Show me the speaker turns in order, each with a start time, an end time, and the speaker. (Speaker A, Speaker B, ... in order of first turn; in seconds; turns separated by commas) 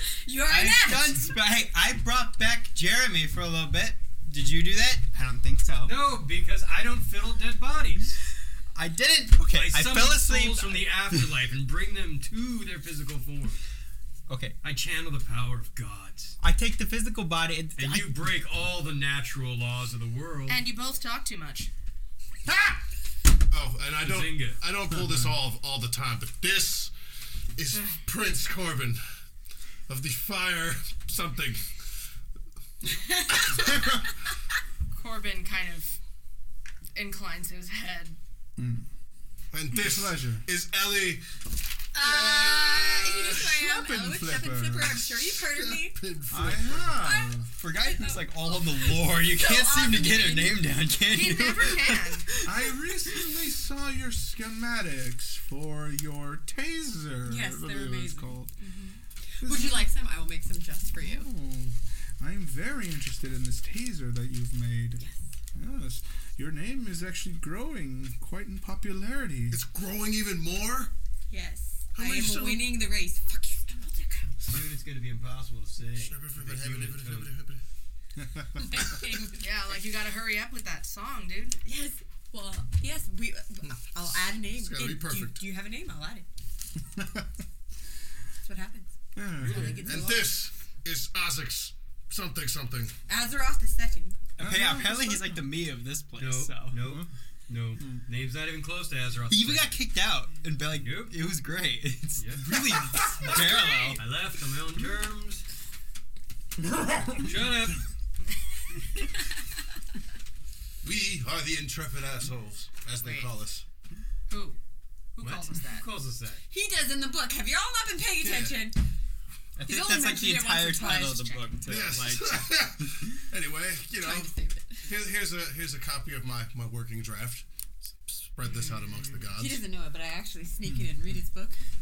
Speaker A: 0.2-1.4, Speaker B: 0.5-6.0, Speaker C: 5.8-8.2, Speaker B: 8.8-11.3, Speaker C: 9.5-13.6, Speaker B: 14.3-14.6, Speaker C: 14.6-16.4, Speaker B: 16.4-18.3, Speaker C: 17.8-20.7, Speaker D: 20.5-21.7, Speaker E: 23.5-26.9, Speaker C: 24.0-24.6, Speaker E: 27.6-29.0, Speaker D: 27.7-28.0, Speaker E: 29.9-31.7, Speaker A: 32.9-33.6, Speaker E: 33.3-34.0, Speaker D: 34.9-36.0, Speaker D: 37.0-38.2, Speaker F: 38.6-38.9, Speaker E: 39.5-41.2, Speaker F: 39.7-40.5, Speaker A: 41.9-46.0, Speaker E: 42.0-43.4, Speaker F: 43.3-45.1, Speaker E: 45.4-47.1, Speaker F: 46.3-47.5, Speaker A: 47.0-50.7, Speaker B: 47.5-52.5, Speaker D: 51.1-52.3, Speaker F: 52.4-58.6, Speaker A: 57.3-58.4, Speaker D: 58.6-59.0, Speaker A: 59.3-61.3, Speaker F: 59.4-59.9, Speaker F: 61.0-65.0, Speaker A: 65.0-65.2, Speaker F: 65.5-69.6, Speaker E: 69.5-70.9, Speaker A: 71.3-74.5, Speaker E: 72.0-72.8, Speaker C: 74.5-77.3, Speaker E: 75.9-77.6, Speaker F: 78.2-78.9, Speaker A: 78.6-79.5, Speaker D: 79.4-81.6, Speaker A: 81.7-86.3, Speaker E: 83.6-85.4, Speaker F: 86.9-87.3, Speaker A: 88.4-90.4, Speaker F: 89.2-90.0, Speaker C: 89.4-89.8, Speaker E: 89.7-93.0, Speaker A: 93.1-94.2, Speaker F: 94.4-95.5, Speaker B: 94.4-96.9, Speaker C: 96.2-99.8, Speaker F: 96.8-97.1, Speaker B: 99.3-104.0, Speaker C: 100.8-101.3, Speaker C: 102.2-105.5, Speaker F: 106.7-107.3, Speaker C: 107.2-107.9, Speaker E: 110.8-113.7, Speaker D: 113.0-113.3, Speaker D: 114.3-114.6, Speaker D: 115.2-115.9, Speaker C: 115.2-116.4, Speaker A: 116.5-118.8, Speaker E: 118.2-118.7, Speaker B: 119.6-122.7, Speaker A: 119.6-121.4, Speaker D: 120.8-121.5, Speaker E: 121.6-124.3, Speaker A: 124.0-124.9, Speaker E: 124.8-127.5, Speaker E: 128.1-129.6, Speaker D: 128.4-129.0, Speaker A: 129.4-131.6